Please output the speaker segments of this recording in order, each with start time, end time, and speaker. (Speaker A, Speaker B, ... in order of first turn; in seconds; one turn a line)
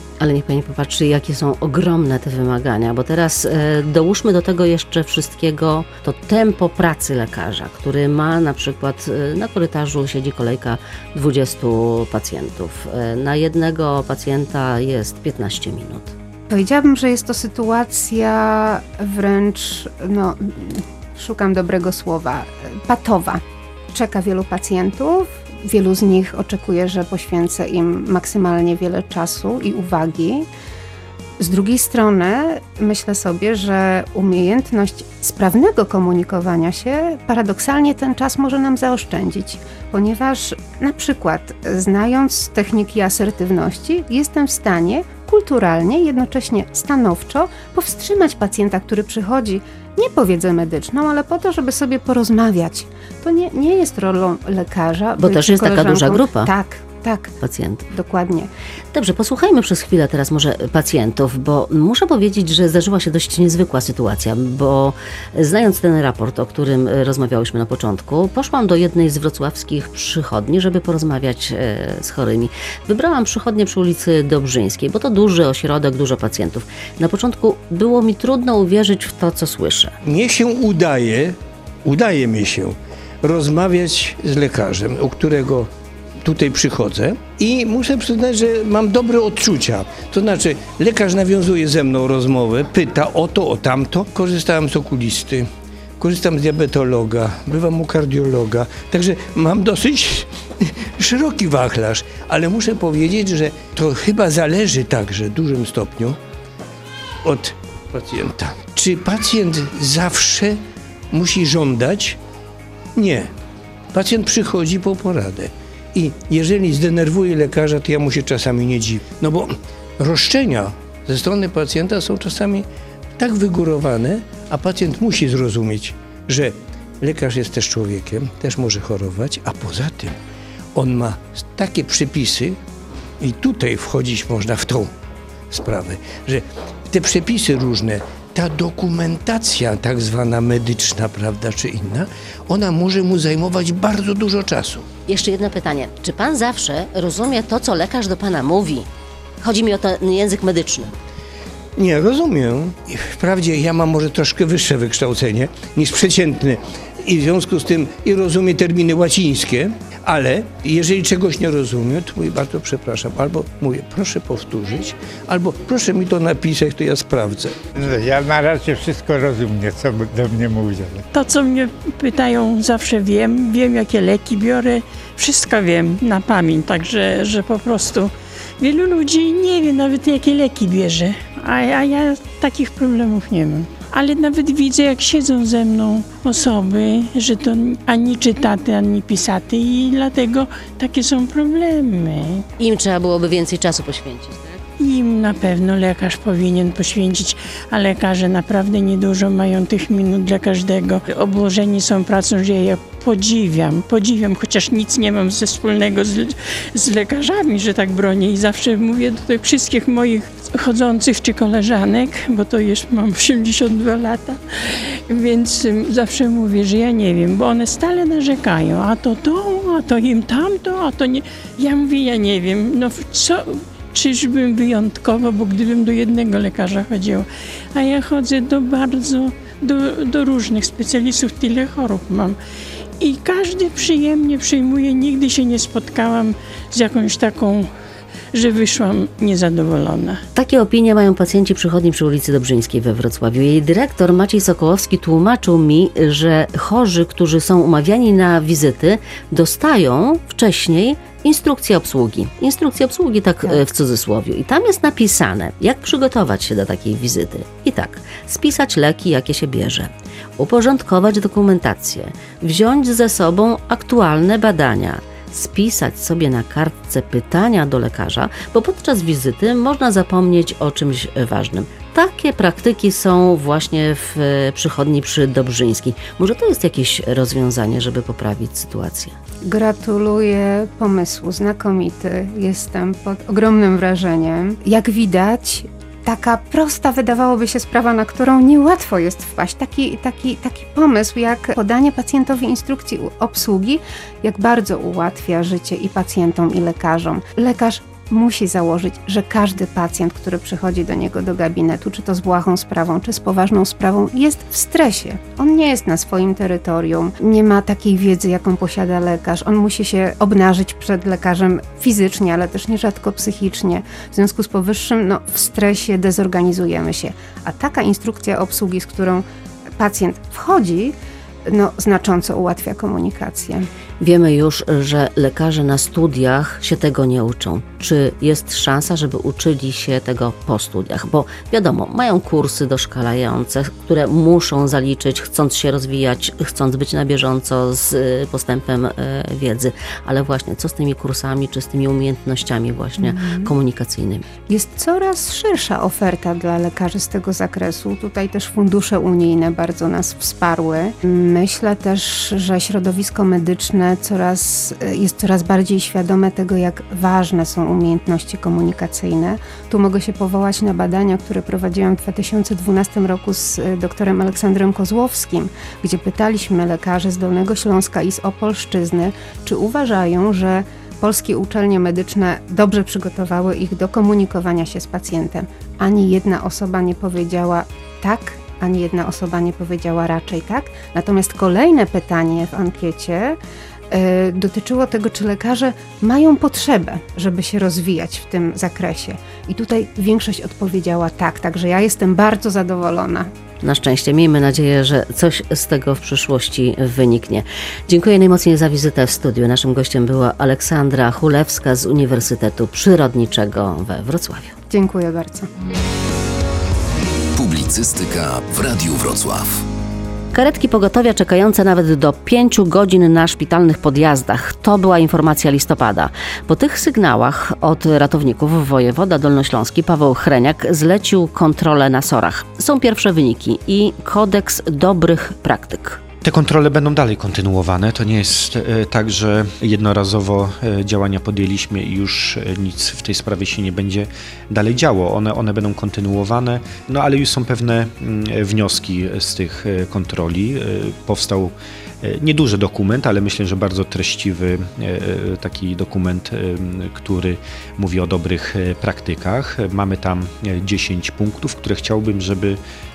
Speaker A: 0.2-16.1
Speaker B: 16.5-23.4
Speaker B: 23.9-30.5
Speaker B: 31.4-57.4
Speaker A: 55.2-56.5
Speaker A: 57.4-57.9
Speaker B: 57.9-58.5
Speaker A: 58.9-79.9
Speaker C: 80.0-85.7
Speaker C: 86.2-95.5
Speaker C: 96.0-106.2
Speaker C: 107.2-110.6
Speaker C: 111.1-112.2
Speaker C: 113.0-113.3
Speaker C: 113.9-122.7
Speaker C: 123.2-130.2
Speaker C: 130.8-132.6
Speaker C: 133.2-134.9
Speaker C: 135.5-144.9
Speaker A: 145.1-148.9
Speaker A: 149.4-150.9
Speaker C: 151.8-167.6
Speaker D: 167.9-170.9
Speaker E: 171.1-192.4
Speaker A: 192.6-194.6
Speaker E: 194.8-232.4
Speaker E: 233.0-237.7
Speaker E: 238.3-240.2
Speaker A: 240.3-279.1
Speaker B: 279.4-319.2
Speaker B: 319.8-320.9
Speaker B: 321.5-323.7
Speaker A: 324.0-344.2
Speaker B: 343.0-343.5
Speaker B: 344.5-383.4
Speaker B: 383.9-393.3
Speaker A: 393.6-404.6
Speaker B: 404.7-405.5
Speaker F: 407.4-409.6
Speaker A: 410.3-426.0
Speaker G: 426.2-452.6